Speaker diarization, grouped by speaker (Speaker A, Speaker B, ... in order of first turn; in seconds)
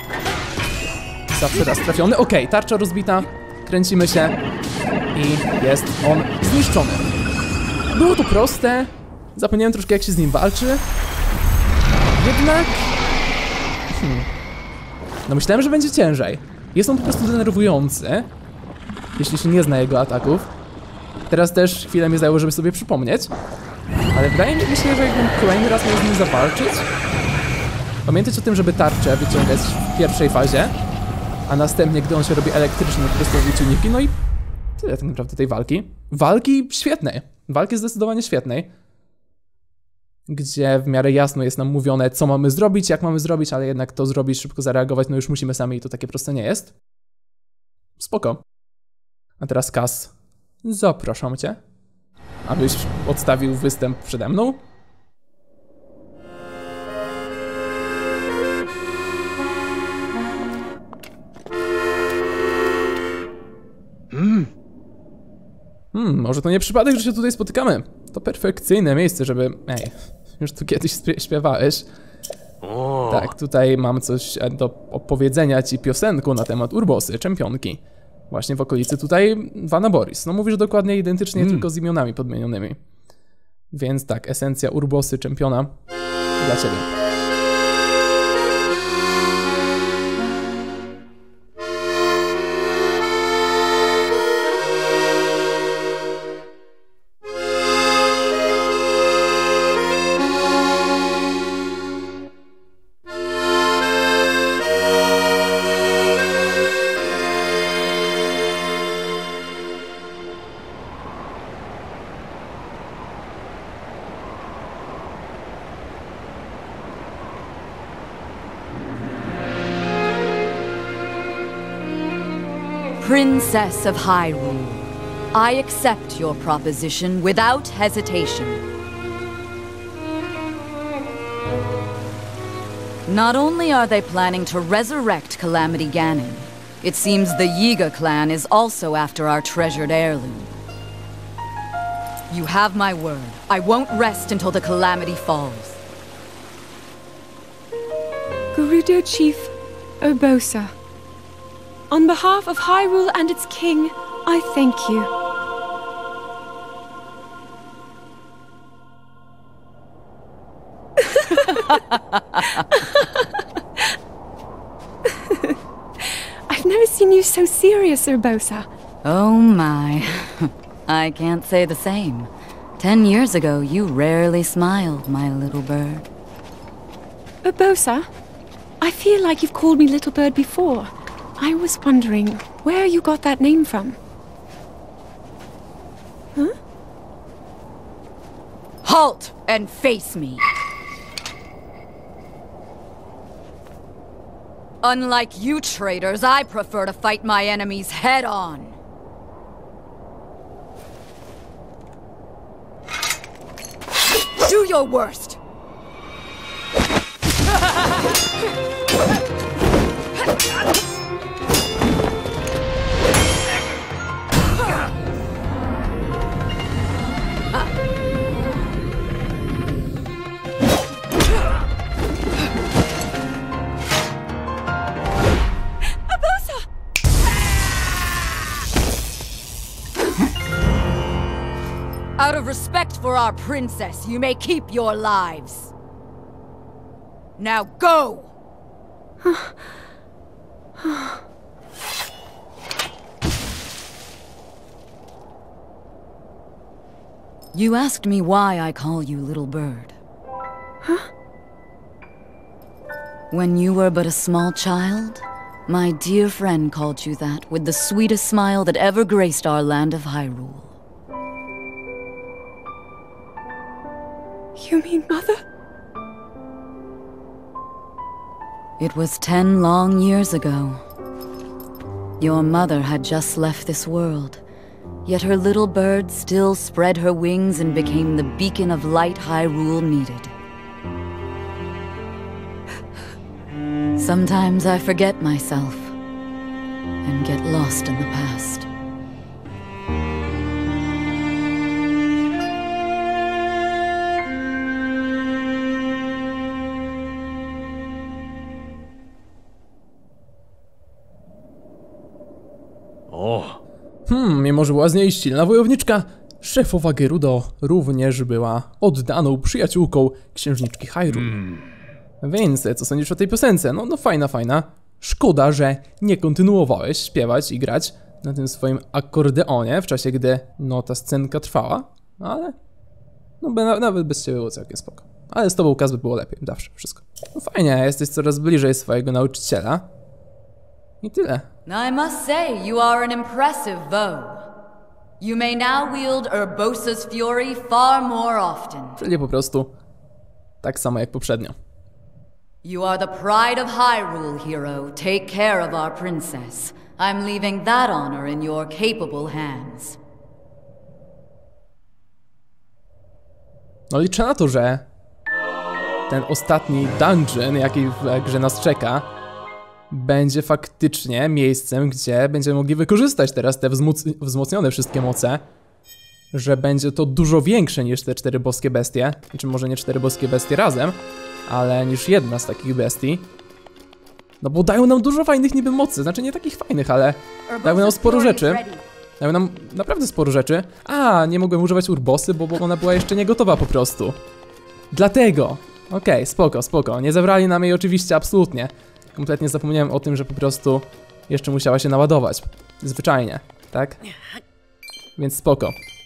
Speaker A: 1.3-4.4, 5.1-7.1, 7.9-10.8, 12.2-12.8, 13.9-14.3, 15.3-18.3, 19.2-20.5, 21.3-23.3, 24.1-26.9, 28.1-30.7, 31.5-34.1, 34.8-38.7, 40.3-46.7, 48.0-48.4, 49.4-50.1, 50.6-51.6, 52.5-54.6, 65.9-71.9, 72.9-82.8, 83.7-85.7, 86.4-86.9, 304.1-311.4, 312.2-322.6, 323.4-329.9, 331.0-331.5, 339.0-339.7, 340.6-341.6, 353.9-354.9, 356.1-359.1, 359.9-365.4, 366.3-373.3, 374.4-378.6, 379.2-384.2, 384.9-394.0, 395.2-395.8
Speaker B: 123.0-128.6, 133.1-140.5, 142.3-145.8, 161.5-162.7, 169.0-176.1, 188.8-190.5, 194.8-198.8, 204.4-205.4, 232.2-235.7, 237.4-238.3, 247.5-250.0, 253.3-260.8, 268.8-270.8, 272.2-274.4, 275.1-280.3, 284.0-286.0, 287.0-288.7, 331.7-334.6, 335.2-339.0, 342.6-350.0, 377.5-378.9
Speaker C: 148.5-150.7, 151.9-155.1, 161.1-161.5, 162.8-163.2, 165.1-168.7, 177.4-178.1, 178.8-184.0, 240.8-241.1, 264.6-265.4